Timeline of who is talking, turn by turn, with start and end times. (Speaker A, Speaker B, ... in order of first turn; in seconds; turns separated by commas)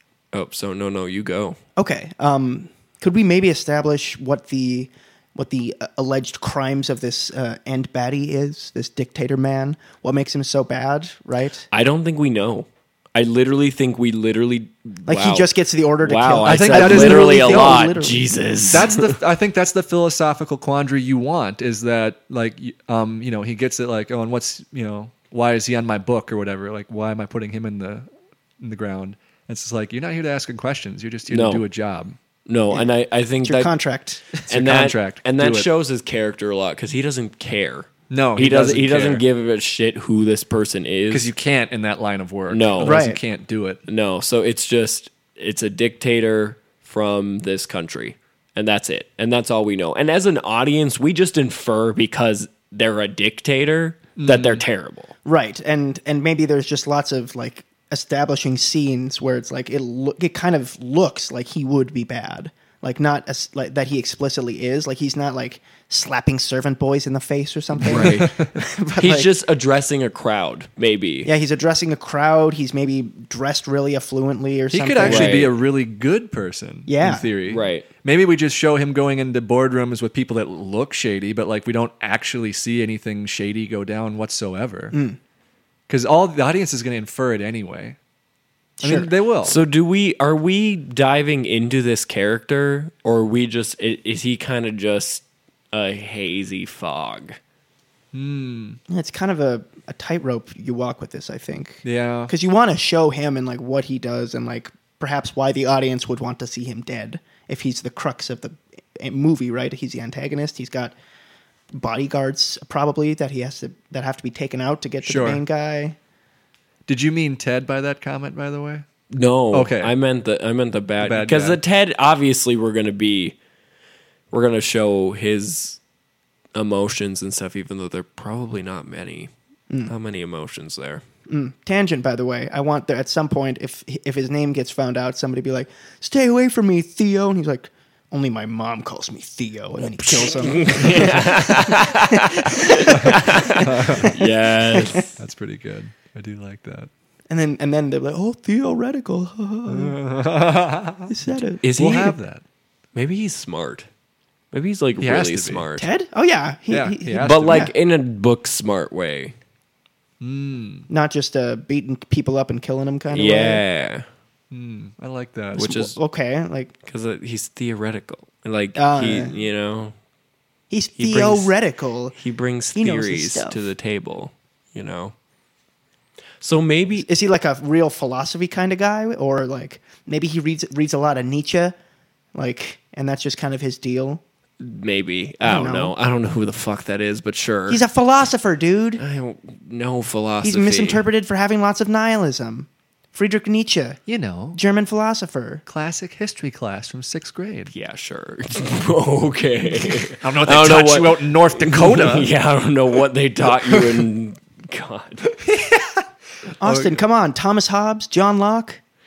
Speaker A: 0.3-1.6, Speaker B: 1.8-11.7, Speaker A: 11.7-15.5, Speaker B: 15.1-18.3, Speaker A: 16.0-19.1, Speaker C: 16.4-17.9, Speaker C: 18.7-28.1, Speaker C: 28.6-32.2, Speaker A: 31.3-31.6, Speaker A: 32.5-33.7, Speaker B: 33.4-34.4, Speaker C: 34.4-35.7, Speaker A: 34.5-41.3, Speaker C: 38.1-39.2, Speaker C: 41.1-43.8, Speaker A: 42.5-43.0, Speaker B: 42.8-43.2, Speaker A: 43.9-55.1, Speaker C: 54.2-54.6, Speaker B: 55.2-69.3, Speaker C: 67.8-68.5, Speaker A: 67.8-68.4, Speaker A: 69.0-71.3, Speaker B: 71.2-75.5, Speaker C: 74.7-85.0, Speaker A: 75.0-75.5, Speaker B: 76.9-77.3, Speaker A: 77.5-77.9, Speaker B: 84.9-85.2, Speaker C: 85.9-88.0, Speaker B: 88.8-89.1, Speaker C: 88.8-89.6, Speaker A: 89.4-97.4, Speaker C: 98.1-98.8, Speaker B: 98.9-110.9, Speaker C: 101.8-102.3, Speaker B: 111.7-116.0, Speaker C: 115.0-115.4, Speaker C: 116.9-118.9, Speaker A: 119.1-123.4, Speaker C: 119.5-119.9, Speaker C: 121.0-121.6, Speaker A: 124.3-125.8, Speaker A: 126.5-129.3, Speaker A: 129.9-131.0, Speaker B: 131.3-145.0, Speaker A: 140.4-145.2, Speaker C: 142.9-144.2, Speaker C: 145.2-146.9, Speaker B: 147.3-150.0, Speaker C: 149.7-151.1, Speaker B: 151.1-151.6, Speaker A: 151.6-152.2, Speaker C: 151.7-152.4, Speaker A: 152.9-153.9, Speaker A: 154.5-155.9, Speaker C: 155.0-155.7, Speaker B: 155.8-157.7, Speaker C: 156.7-157.7, Speaker A: 157.2-159.3, Speaker C: 160.2-160.9, Speaker B: 160.9-163.6, Speaker A: 163.1-164.1, Speaker C: 164.5-165.8, Speaker A: 165.5-166.0, Speaker B: 165.6-166.7, Speaker A: 166.8-169.9, Speaker B: 168.8-169.3, Speaker B: 170.7-172.2, Speaker A: 171.0-171.5, Speaker A: 172.2-175.2, Speaker B: 172.8-173.7, Speaker A: 176.4-177.1, Speaker B: 177.0-181.8, Speaker B: 182.3-184.2, Speaker A: 184.6-187.8, Speaker B: 185.4-185.9, Speaker B: 187.7-189.0, Speaker A: 189.0-191.0, Speaker B: 190.4-194.0, Speaker C: 194.1-194.6, Speaker B: 194.5-195.6, Speaker C: 195.7-197.7, Speaker A: 197.7-205.3, Speaker C: 199.8-202.3, Speaker C: 203.7-204.0, Speaker C: 205.4-206.1, Speaker B: 206.6-208.8, Speaker C: 206.6-207.0